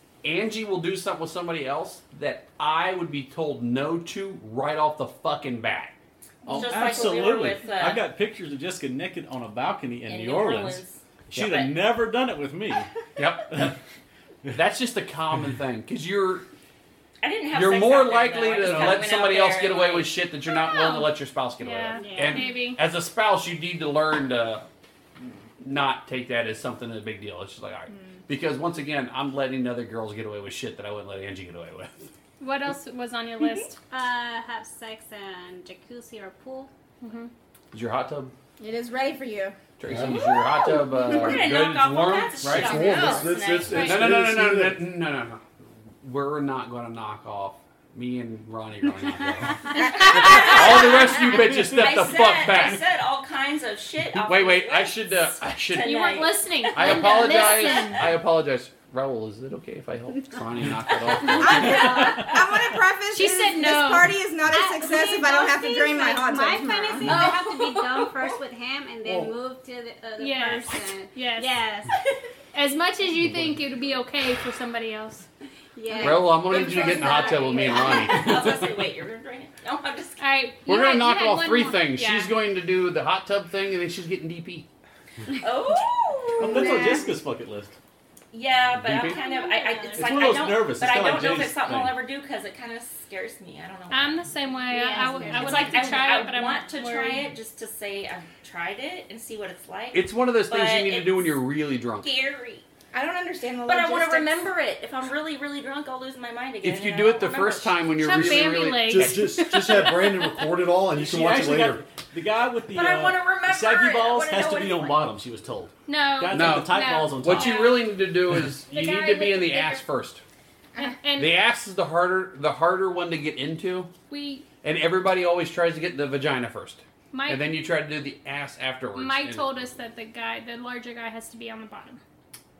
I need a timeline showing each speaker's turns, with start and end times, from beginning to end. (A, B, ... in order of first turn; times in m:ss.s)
0:00.2-0:07.1 A
0:06.5-0:12.9 B
0:06.5-0:08.0 C
0:10.0-0:11.7 C
0:11.4-0:11.7 A
0:13.2-0:13.7 A
0:13.5-0:13.8 B
0:14.5-0:16.4 A
0:17.2-0:20.2 C
0:17.5-0:24.6 A
0:18.6-0:19.0 B
0:20.6-0:22.8 D
0:22.0-0:22.6 E
0:25.6-0:32.0 A
0:27.9-0:28.2 F
0:32.4-0:33.8 D
0:33.9-0:36.7 E
0:37.0-0:37.3 D
0:37.7-0:38.3 A
0:38.6-0:39.5 F
0:39.8-0:45.4 A
0:39.9-0:40.2 G
0:40.1-0:43.9 C
0:42.4-0:44.8 G
0:43.5-0:44.0 D
0:46.0-0:52.9 A
0:49.8-0:58.0 C
0:50.1-0:50.5 F
0:54.2-0:56.0 A
0:55.8-0:58.1 D
0:56.7-1:02.0 A
1:01.2-1:02.2 E
1:01.3-1:07.4 F
1:01.8-1:02.3 B
1:03.1-1:04.1 D
1:04.4-1:11.9 E
1:07.1-1:08.3 C
1:10.2-1:11.6 D
1:12.5-1:15.2 D
1:15.8-1:18.3 E
1:16.0-1:20.2 C
1:16.0-1:18.6 A
1:20.2-1:22.3 D
1:20.6-1:24.6 A
1:25.4-1:26.8 C
1:26.4-1:27.7 B
1:26.4-1:27.2 F
1:28.3-1:34.3 C
1:28.8-1:29.2 A
1:29.0-1:30.3 E
1:29.9-1:32.0 B
1:33.9-1:37.3 D
1:34.7-1:36.3 E
1:35.2-1:41.4 C
1:39.9-1:42.1 A
1:41.9-1:42.6 C
1:42.9-1:44.5 F
1:43.6-1:48.5 C
1:46.6-1:49.4 A
1:48.0-1:50.4 D
1:48.7-1:51.8 G
1:50.9-1:57.8 B
1:52.7-1:55.1 C
1:55.9-1:57.9 D
1:56.3-2:00.2 A
1:58.7-1:59.8 D
2:00.8-2:01.4 D
2:01.2-2:03.9 A
2:04.1-2:04.4 D
2:04.6-2:09.6 A
2:07.1-2:07.4 D
2:08.9-2:12.0 D